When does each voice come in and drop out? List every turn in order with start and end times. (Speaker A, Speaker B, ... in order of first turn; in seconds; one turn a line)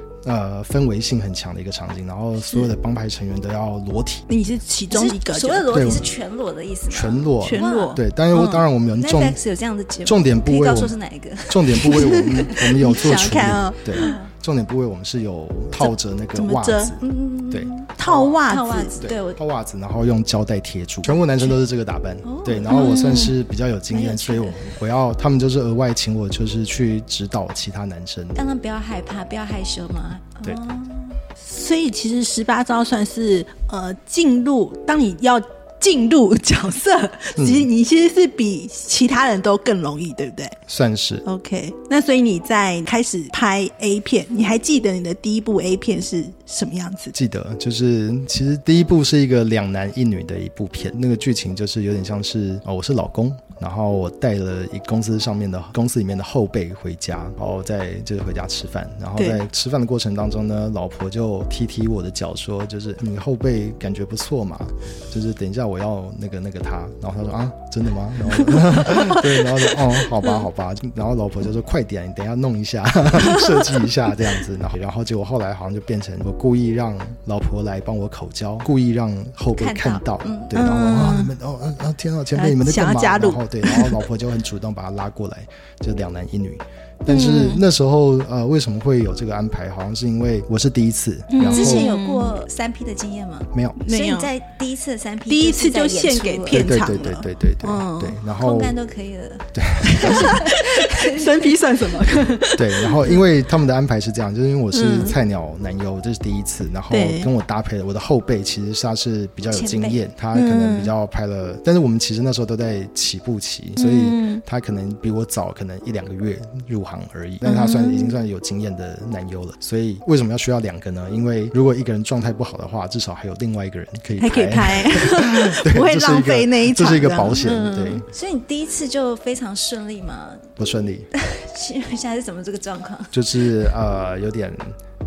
Speaker A: 0.2-4.3
Speaker B: 4.3-5.8
Speaker C: 4.9-8.0
Speaker A: 5.7-6.1
Speaker A: 6.9-9.4
Speaker B: 7.4-8.6
Speaker C: 9.0-12.4
Speaker A: 10.1-10.9
Speaker A: 11.5-18.4
Speaker B: 11.8-14.2
Speaker C: 14.0-14.3
Speaker B: 15.8-17.0
Speaker C: 17.0-19.4
Speaker B: 18.0-18.9
Speaker A: 19.0-28.4
Speaker C: 22.2-23.3
Speaker B: 22.7-23.3
Speaker C: 23.9-24.7
Speaker C: 28.4-31.1
Speaker B: 31.4-40.6
Speaker A: 37.4-37.7
Speaker A: 40.7-41.2
Speaker B: 41.2-47.1
Speaker A: 47.1-91.9
Speaker B: 68.5-69.6
Speaker B: 73.2-73.7
Speaker C: 79.6-80.6
Speaker B: 80.5-81.3
Speaker B: 82.3-84.1
Speaker B: 87.1-87.6
Speaker B: 91.3-92.4
Speaker C: 91.4-96.9
Speaker B: 93.8-94.3
Speaker B: 95.3-98.2
Speaker A: 96.5-98.7
Speaker C: 98.3-102.0
Speaker A: 99.5-100.3
Speaker B: 100.0-103.2
Speaker A: 102.5-128.1
Speaker B: 104.7-105.2
Speaker B: 106.9-107.3
Speaker C: 109.5-110.0
Speaker B: 110.3-110.9
Speaker B: 113.8-114.4
Speaker B: 117.4-118.2
Speaker B: 124.2-128.0
Speaker C: 128.1-130.5
Speaker A: 130.6-131.1
Speaker C: 131.2-133.1
Speaker A: 133.1-134.7